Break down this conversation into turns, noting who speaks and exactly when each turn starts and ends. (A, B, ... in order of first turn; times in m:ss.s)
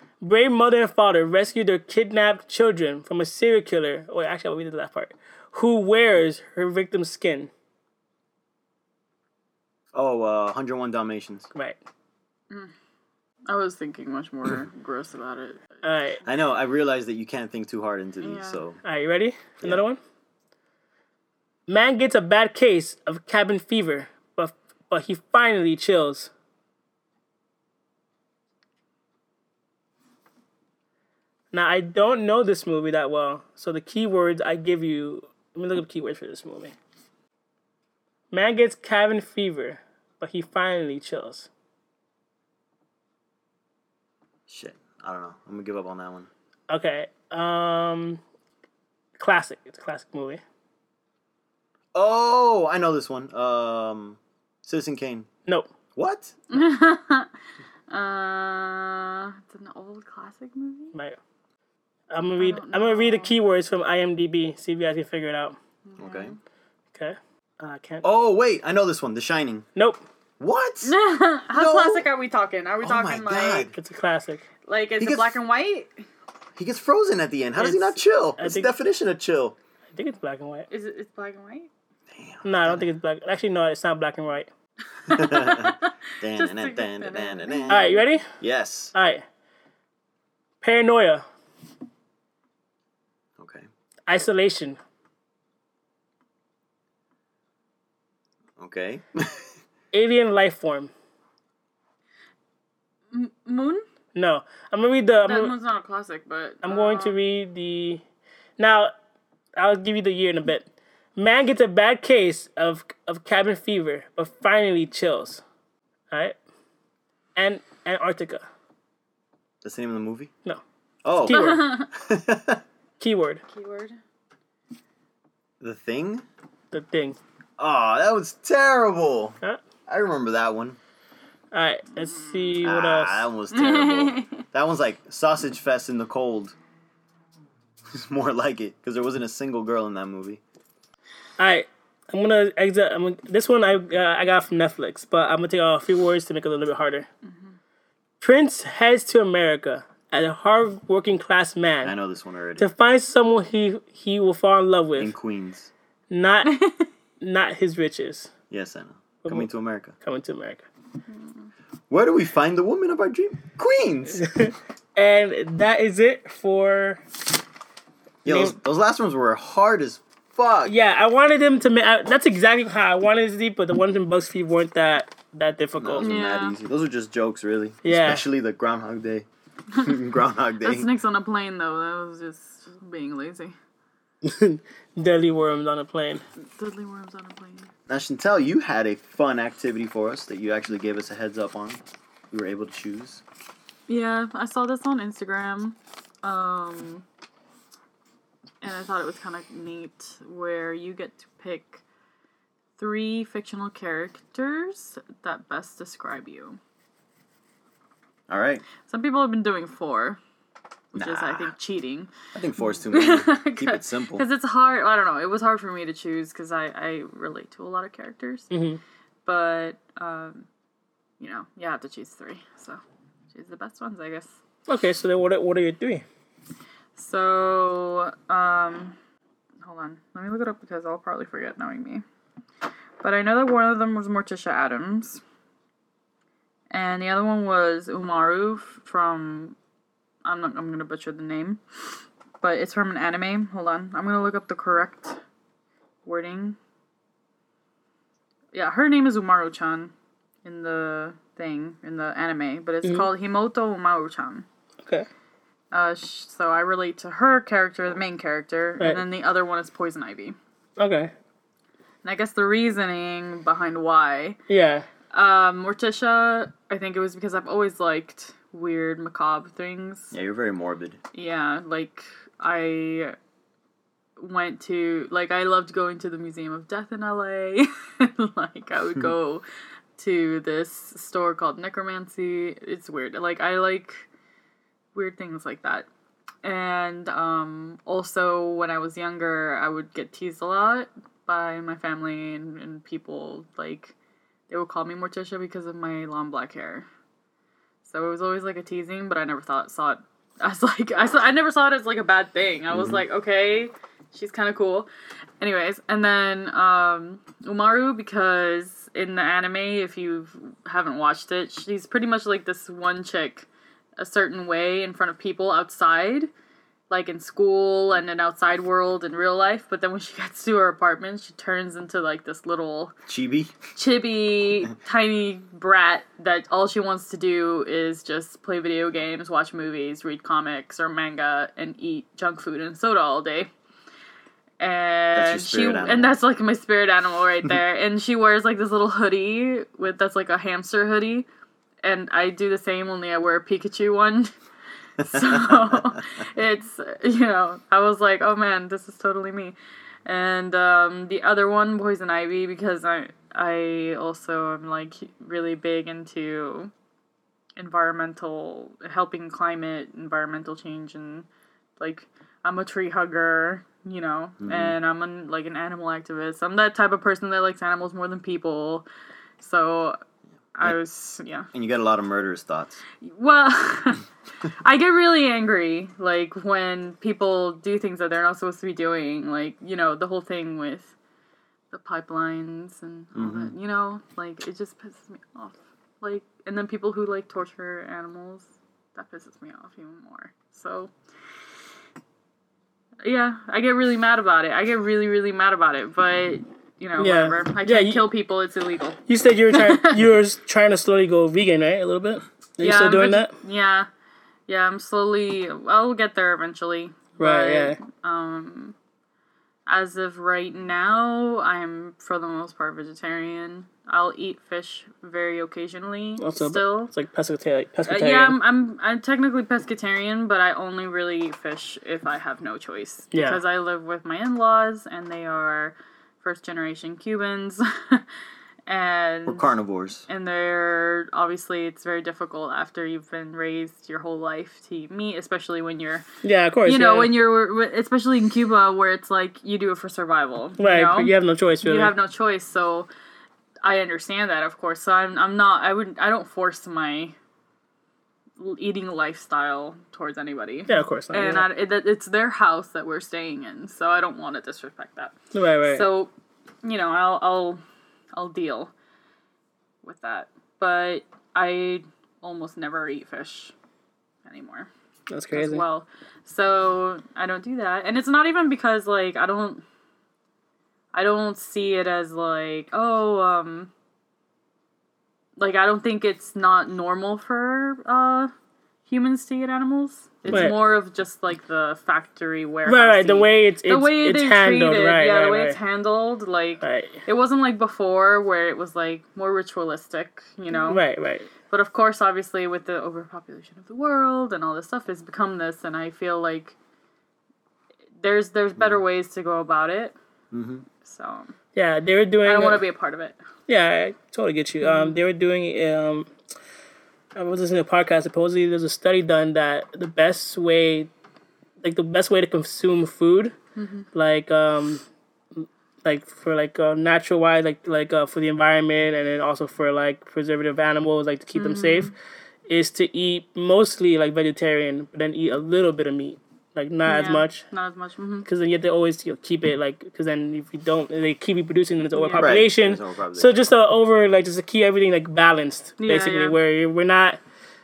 0:00.2-0:07.5 A
0:09.9-0:11.5 B
0:13.5-0:15.7 C
0:15.8-0:16.2 A
0:16.2-0:18.8 B
0:18.2-0:18.6 C
0:18.8-0:20.0 A
0:21.7-0:26.3 A
0:31.5-0:36.7 A
0:38.3-0:41.5 A
0:44.5-0:46.3 B
0:46.7-0:48.2 A
0:49.2-0:50.4 A
0:51.9-0:55.3 B
0:56.0-0:56.3 B
0:56.5-0:57.3 C
0:57.9-1:01.0 C
1:02.1-1:05.6 A
1:02.4-1:03.3 C
1:05.8-1:06.4 C
1:06.0-1:06.3 B
1:06.9-1:08.0 A
1:08.0-1:09.7 B
1:09.8-1:10.0 A
1:10.4-1:11.0 B
1:10.8-1:13.7 C
1:11.5-1:12.1 B
1:12.8-1:13.8 B
1:13.8-1:14.4 A
1:14.6-1:16.1 C
1:15.0-1:15.4 B
1:16.6-1:19.6 B
1:17.6-1:18.7 A
1:19.9-1:20.7 A
1:20.7-1:21.7 C
1:22.1-1:22.9 B
1:22.4-1:24.5 A
1:25.0-1:28.0 C
1:25.1-1:27.9 B
1:27.7-1:28.3 A
1:28.4-1:28.9 B
1:28.9-1:29.2 A
1:30.6-1:31.2 A
1:33.4-1:33.7 B
1:34.1-1:34.8 A
1:38.6-1:39.5 B
1:39.9-1:40.9 A
1:43.1-1:43.8 C
1:44.2-1:45.5 A
1:45.2-1:47.2 C
1:46.6-1:48.0 A
1:48.6-1:48.9 A
1:49.6-1:55.4 A
1:57.4-1:58.4 A
1:59.6-2:00.3 B
2:01.0-2:02.6 B
2:01.2-2:01.8 A
2:01.3-2:01.9 C
2:03.0-2:03.4 A
2:03.5-2:04.0 C
2:05.6-2:06.2 B
2:06.7-2:07.2 A
2:07.6-2:10.8 B
2:11.5-2:13.2 A
2:12.0-2:12.6 C
2:12.6-2:16.6 B
2:13.5-2:14.4 C
2:17.9-2:20.4 B
2:21.4-2:27.1 A
2:27.3-2:27.5 C
2:28.2-2:31.9 A
2:31.8-2:32.7 B
2:32.6-2:35.1 A
2:35.0-2:35.7 B
2:36.1-2:36.6 A
2:36.4-2:36.9 C
2:37.2-2:38.3 A
2:38.5-2:39.9 B
2:39.2-2:39.5 A
2:40.0-2:40.6 A
2:41.9-2:44.2 B
2:44.2-2:47.0 A
2:48.2-2:50.7 B
2:48.3-2:48.6 A
2:50.7-2:56.0 A
2:55.8-2:59.3 B
2:56.0-2:56.6 C
2:57.8-2:58.2 A
2:59.7-3:00.0 C
2:59.8-3:00.9 B
3:00.6-3:03.6 C
3:04.2-3:06.2 A
3:06.6-3:07.7 C
3:07.9-3:13.2 B
3:13.9-3:17.0 C
3:18.6-3:21.8 C
3:22.8-3:26.6 C
3:28.3-3:28.6 B
3:28.8-3:30.2 C
3:30.9-3:32.1 C
3:31.0-3:31.5 B
3:32.3-3:34.2 B
3:32.9-3:38.5 C
3:38.5-3:38.8 A
3:39.3-3:40.5 C
3:41.2-3:42.8 C
3:43.3-3:44.4 C
3:44.7-3:46.0 A
3:47.0-3:49.0 C
3:49.6-3:52.0 C
3:53.0-3:55.2 C
3:56.7-3:59.6 C
4:00.2-4:01.6 C
4:02.4-4:05.2 C
4:06.0-4:06.6 C
4:08.5-4:09.9 C
4:10.4-4:14.5 C
4:15.7-4:20.4 C
4:20.8-4:21.1 A
4:22.0-4:24.4 C
4:24.5-4:24.9 A
4:25.1-4:30.2 C
4:30.1-4:31.0 B
4:31.1-4:33.2 C
4:34.2-4:39.4 C
4:40.0-4:44.1 C
4:44.9-4:45.9 C
4:46.4-4:53.9 C
4:54.5-4:56.9 C
4:57.8-5:13.5 C
5:02.7-5:03.0 B
5:14.0-5:16.3 C
5:16.9-5:22.9 C
5:23.1-5:23.6 B
5:23.8-5:33.5 C
5:34.6-5:41.3 C
5:35.2-5:36.2 B
5:41.8-5:44.3 C
5:45.0-5:56.7 C
5:45.0-5:46.0 B
5:57.6-6:01.3 C
6:01.8-6:08.9 C
6:04.4-6:04.8 B
6:09.4-6:10.0 C
6:10.6-6:11.5 C
6:11.5-6:12.8 B
6:13.0-6:20.9 C
6:21.7-6:30.9 C
6:23.2-6:23.5 B
6:33.0-6:39.0 C
6:37.0-6:38.1 A
6:39.1-6:43.3 A
6:39.5-6:40.0 C
6:42.6-6:43.9 C
6:44.5-6:48.8 C
6:47.2-6:47.8 A
6:49.7-6:56.9 C
6:56.2-6:58.4 A
6:57.9-7:08.1 C
7:03.1-7:03.4 A
7:08.7-7:09.5 C
7:09.3-7:10.0 B
7:10.1-7:16.0 C
7:16.2-7:17.2 A
7:16.6-7:22.9 C
7:20.6-7:21.9 A
7:23.6-7:27.2 C
7:28.4-7:35.2 C
7:30.7-7:31.4 A
7:35.3-7:35.8 A
7:35.7-7:36.1 C
7:36.6-7:37.6 C
7:38.2-7:38.7 C
7:39.8-7:43.5 C
7:44.2-7:44.7 C
7:45.1-7:45.6 A
7:45.3-7:49.6 C
7:50.9-7:53.7 C
7:55.4-7:58.3 C
7:58.9-8:10.8 C
8:00.2-8:00.6 B
8:00.3-8:00.6 A
8:02.7-8:05.6 A
8:06.6-8:07.0 A
8:10.7-8:11.3 A
8:11.5-8:16.6 C
8:18.0-8:20.0 C
8:20.3-8:20.6 B
8:20.8-8:21.3 C
8:21.6-8:22.6 A
8:22.2-8:23.2 C
8:23.5-8:26.1 A
8:24.6-8:25.0 C
8:27.2-8:30.9 A
8:31.6-8:33.3 A
8:33.6-8:33.9 C
8:33.9-8:34.8 A
8:35.8-8:41.9 A
8:41.4-8:41.9 C
8:42.5-8:47.4 A
8:46.9-8:48.3 C
8:48.3-8:57.2 A
8:51.9-8:52.4 C
8:52.2-8:53.3 B
8:55.8-8:56.4 C